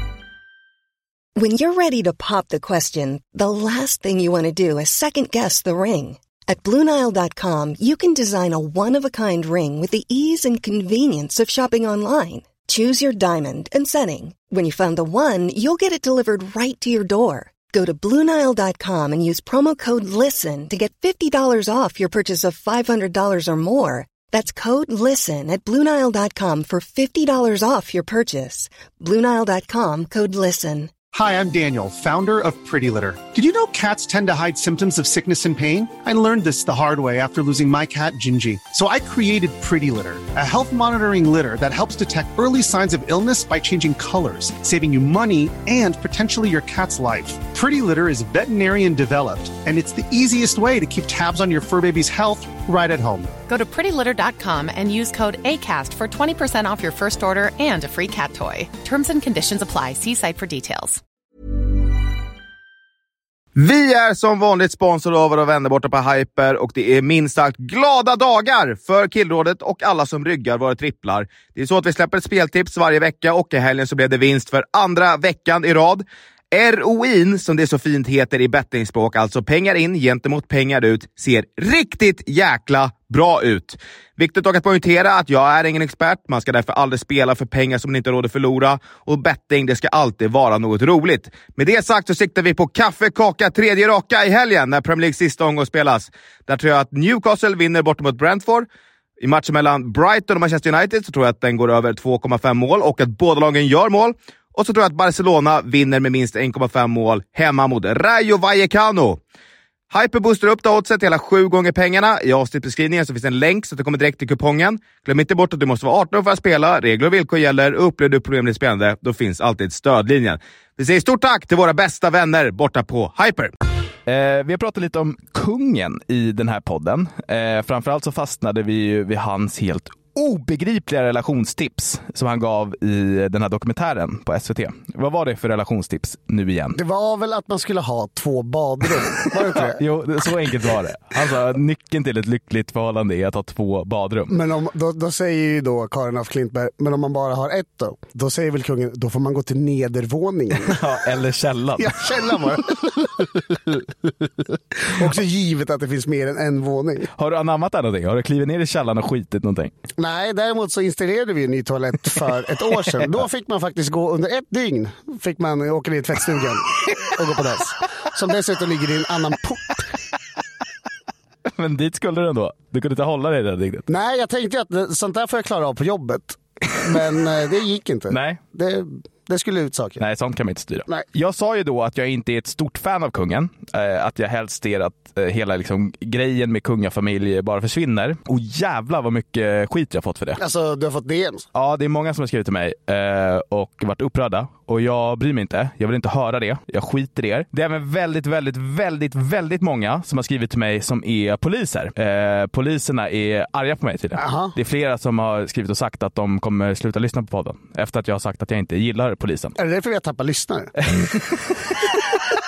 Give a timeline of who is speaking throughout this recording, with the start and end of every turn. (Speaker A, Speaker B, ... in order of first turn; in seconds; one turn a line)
Speaker A: 1.4-31.0
Speaker B: 31.1-53.3
Speaker C: 53.5-61.0
Speaker D: 63.5-98.7
Speaker D: 99.2-109.2
Speaker D: 109.9-123.5
Speaker D: 124.0-136.8
Speaker E: 136.7-139.8
Speaker D: 139.2-144.3
Speaker E: 144.3-150.8
Speaker D: 150.6-152.5
Speaker E: 151.8-153.2
Speaker E: 154.8-157.1
Speaker D: 157.2-159.7
Speaker E: 160.0-169.8
Speaker D: 171.5-173.9
Speaker E: 173.9-180.0
Speaker D: 178.1-178.4
Speaker D: 180.0-190.4
Speaker E: 190.4-191.4
Speaker D: 191.5-209.5
Speaker E: 204.2-204.5
Speaker E: 209.6-210.7
Speaker D: 210.8-212.2